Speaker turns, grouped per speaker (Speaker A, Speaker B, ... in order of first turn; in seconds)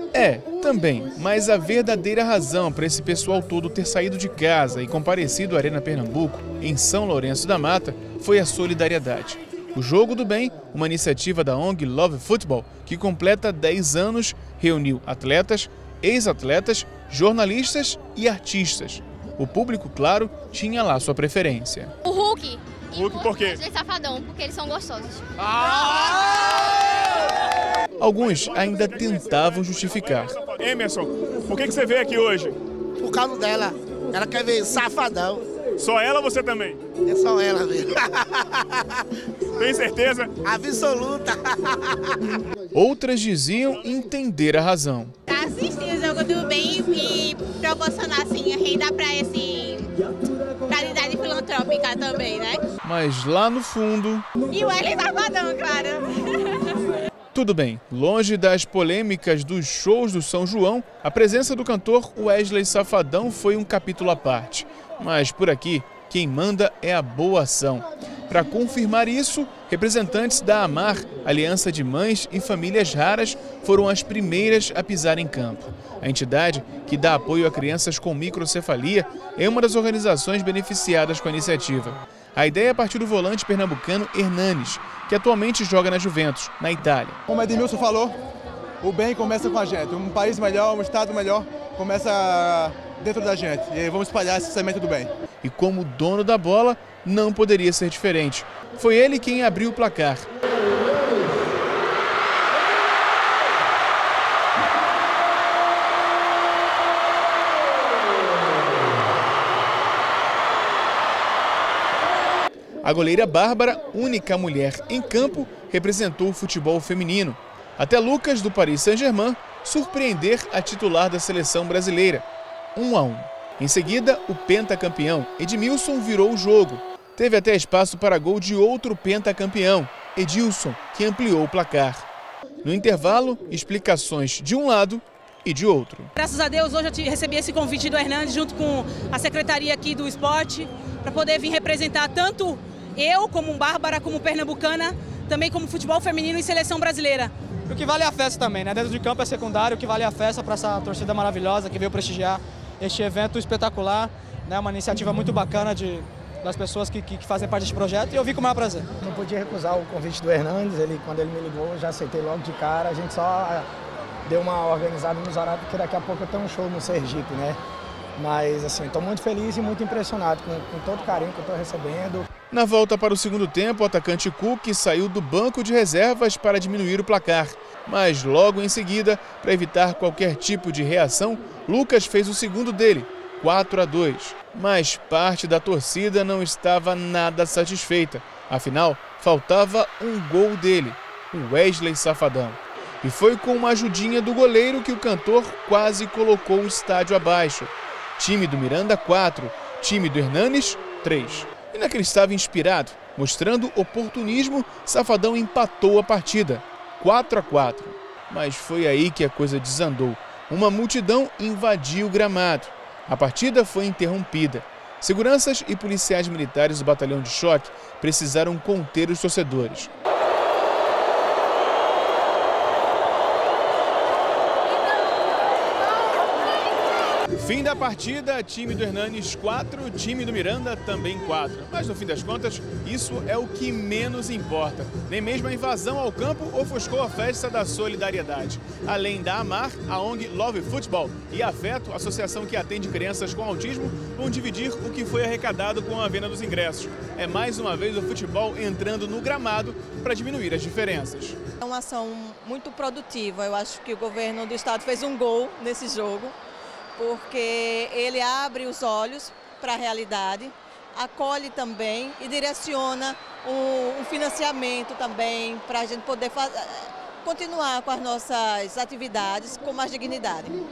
Speaker A: 0.1-21.9, 28.0-30.4, 42.7-45.1, 52.8-54.3, 57.3-87.2, 95.4-100.3, 112.8-122.2, 122.8-132.0, 132.6-136.1, 172.5-219.9, 227.3-251.4
Speaker B: 22.1-25.2
Speaker C: 22.9-23.6, 25.5-26.2, 28.2-29.2, 29.9-32.6, 35.8-36.8, 39.6-40.3
Speaker D: 33.0-35.4, 37.1-38.8, 40.4-42.1
Speaker E: 45.3-49.9, 50.7-52.6, 54.5-56.8
Speaker F: 87.3-88.2, 88.8-95.1
Speaker G: 136.2-147.3
Speaker H: 147.7-158.8
Speaker I: 159.0-163.7, 164.3-167.6, 168.2-172.3
Speaker J: 251.6-256.4, 257.0-270.6